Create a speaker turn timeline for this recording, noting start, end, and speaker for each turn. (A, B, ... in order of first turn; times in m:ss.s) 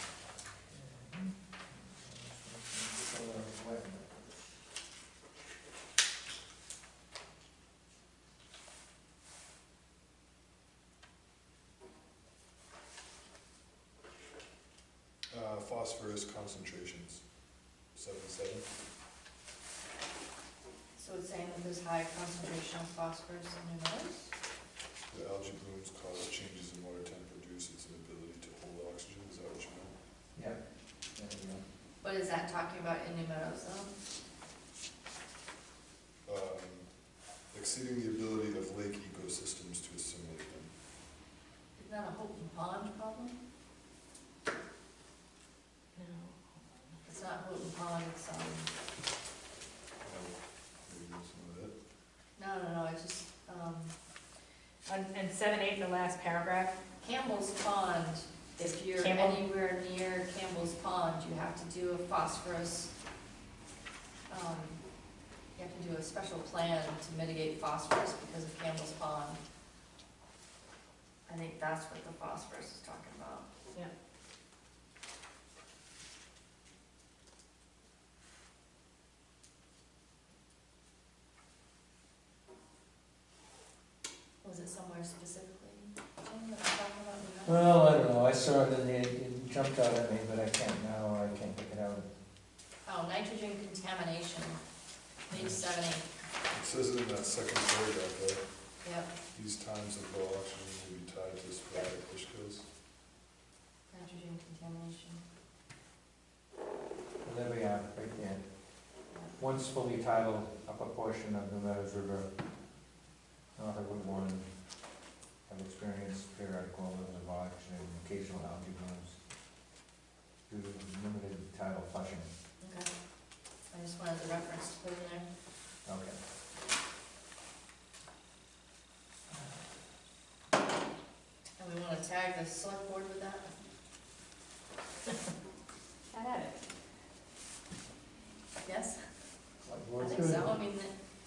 0:00.5-0:04.5 A
0:15.3-0:17.2 B
0:17.9-0:18.7 B
0:21.0-0:24.3 C
0:25.1-0:29.9 B
0:31.2-0:31.6 A
0:32.0-0:33.9 C
0:36.3-0:36.9 B
0:37.5-0:40.7 B
0:41.8-0:43.3 C
0:46.0-0:46.9 D
0:47.0-0:48.7 C
0:50.0-0:51.8 B
0:52.4-0:53.9 C
0:54.9-0:56.8 D
0:57.0-1:02.9 C
0:58.6-0:59.4 D
1:04.3-1:04.8 C
1:05.6-1:09.4 C
1:11.3-1:13.5 C
1:24.4-1:27.6 C
1:27.4-1:32.1 A
1:32.9-1:34.6 C
1:35.3-1:36.1 C
1:36.5-1:38.4 B
1:38.8-1:39.1 C
1:39.3-1:42.7 B
1:43.9-1:45.2 C
1:47.2-1:48.4 A
1:49.4-1:52.3 A
1:53.6-1:54.5 A
1:55.5-1:59.2 A
2:00.5-2:02.3 A
2:02.6-2:02.9 C
2:03.7-2:05.3 C
2:05.9-2:06.2 A
2:09.3-2:09.6 A
2:11.6-2:13.5 C
2:16.1-2:16.6 D
2:18.6-2:19.0 C
2:19.6-2:20.6 A
2:20.0-2:20.9 C